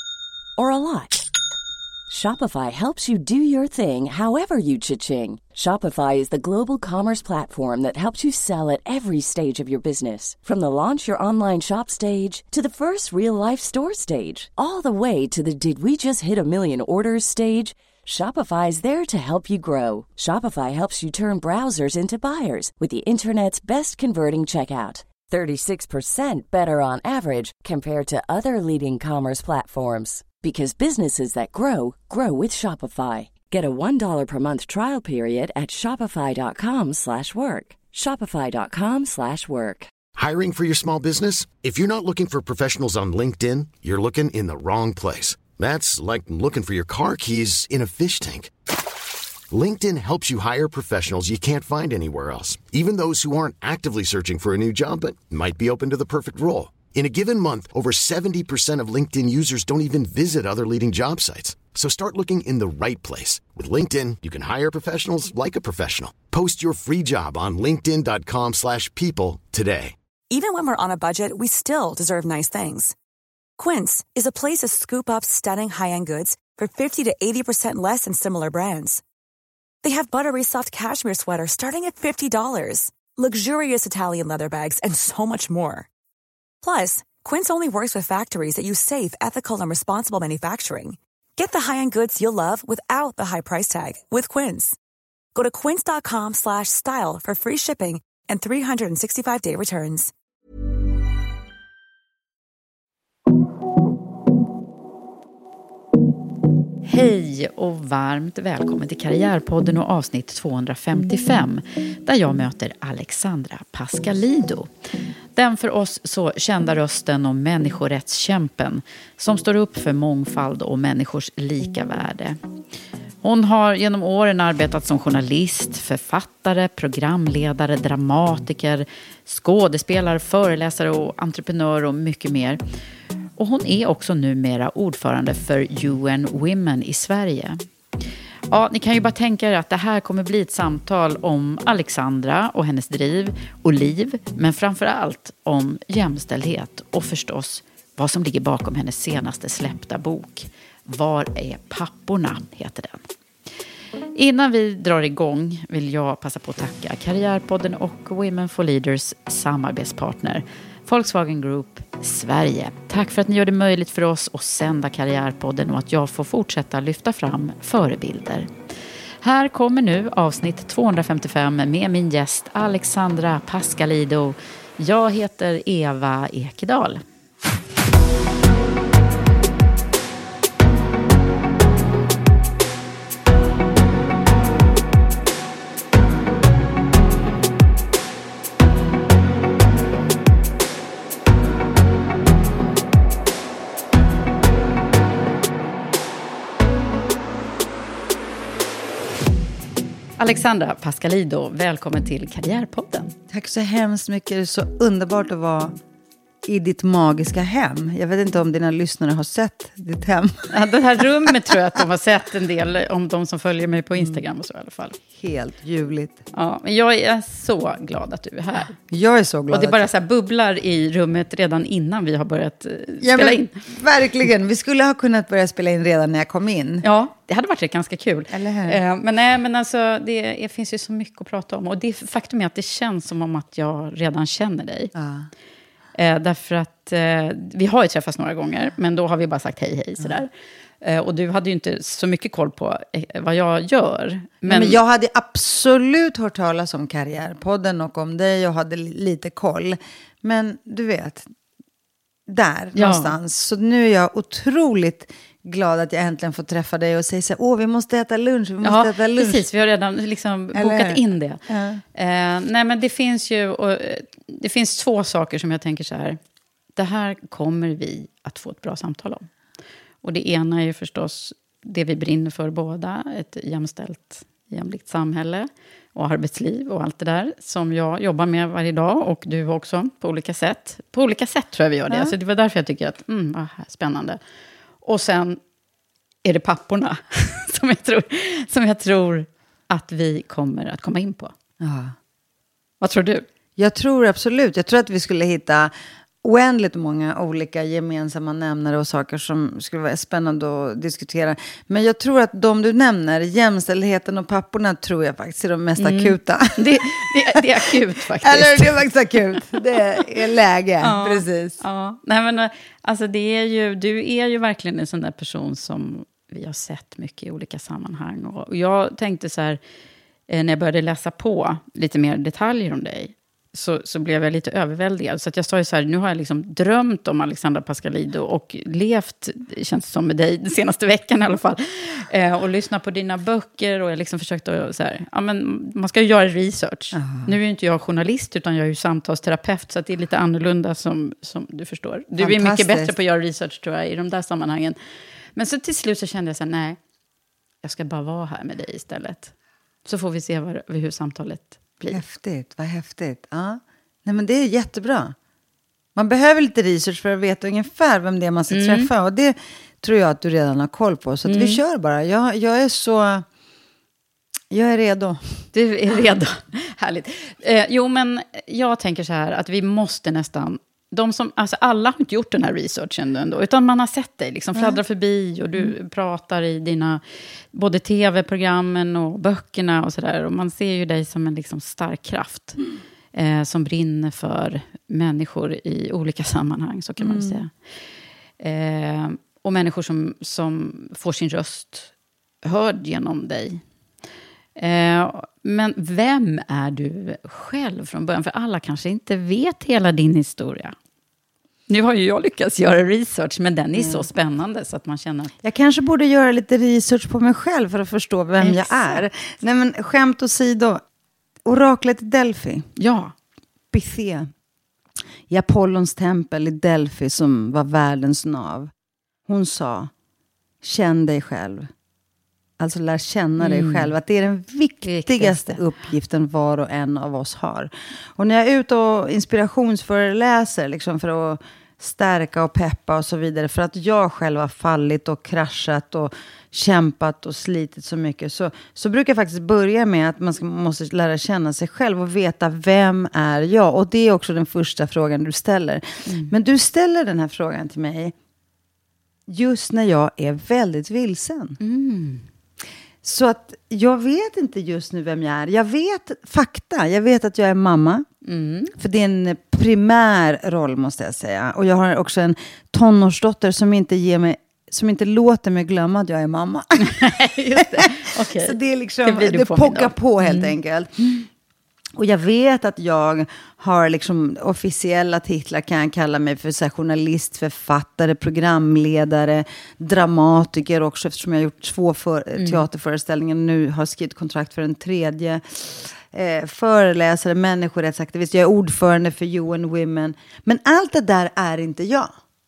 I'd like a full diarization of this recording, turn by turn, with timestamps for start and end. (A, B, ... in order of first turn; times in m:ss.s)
0:00.6-0:01.2 A
0:02.1-0:39.9 A
0:40.2-0:48.5 B
0:49.5-1:10.0 B
1:10.3-1:12.9 C
1:13.6-1:19.0 C
1:19.8-1:25.9 C
1:26.6-1:34.8 C
1:35.3-1:40.1 C
1:46.8-1:54.7 D
1:55.4-2:02.4 D
2:03.2-2:12.6 D
2:13.4-2:17.6 D
2:18.5-2:33.0 D
2:34.1-2:48.5 D
2:49.2-2:57.0 D
3:20.2-3:23.1 D
3:23.3-3:25.8 E
3:26.4-3:30.5 E
3:30.5-3:35.0 D
3:35.1-3:36.2 E
3:36.3-3:38.8 D
3:38.8-3:39.9 E
3:39.5-3:43.6 D
3:43.0-3:46.8 E
3:46.8-3:54.9 D
3:48.3-3:48.8 E
3:54.9-3:55.3 E
3:55.9-4:00.3 D
4:00.8-4:04.8 D
4:04.4-4:11.3 E
4:12.3-4:19.4 E
4:12.7-4:13.1 D
4:18.6-4:21.4 D
4:20.5-4:21.8 E
4:21.9-4:26.2 D
4:26.8-4:29.3 D
4:30.0-4:44.2 D
4:44.8-4:45.4 D
4:46.2-4:51.3 D
4:51.6-4:51.9 E
4:52.8-4:53.2 D
4:53.6-4:55.7 E
4:56.2-5:11.6 E
5:05.8-5:08.8 D
5:10.8-5:19.6 D
5:20.3-5:44.8 D
5:36.9-5:37.3 E
5:42.2-5:42.9 E
5:45.3-5:46.8 D
5:47.6-5:49.3 D
5:49.8-5:52.0 D
5:51.9-5:55.1 E
5:55.9-6:03.2 E
5:58.5-5:58.9 D
6:01.2-6:01.6 D
6:04.5-6:05.4 E
6:05.5-6:17.0 D
6:14.5-6:14.8 E
6:17.5-6:22.6 D
6:23.1-6:27.5 D
6:27.0-6:27.4 E
6:28.4-6:31.9 D
6:32.4-6:33.6 D
6:34.6-6:40.7 D
6:41.7-6:45.3 D
6:43.7-6:44.1 E
6:45.4-6:50.8 E
6:48.4-6:49.0 D
6:51.4-6:52.7 E
6:52.8-6:53.1 D
6:53.7-6:54.3 E
6:55.3-6:58.7 E
6:59.2-6:59.9 E
7:00.6-7:01.7 E
7:02.6-7:28.1 E
7:03.4-7:03.9 D
7:04.8-7:05.6 D
7:26.0-7:26.3 D
7:29.3-7:31.6 E
7:31.6-7:32.2 D
7:33.0-7:38.1 E
7:38.2-7:38.7 D
7:38.7-7:50.9 E
7:46.8-7:51.3 D
7:52.0-8:12.1 E
8:02.4-8:02.6 D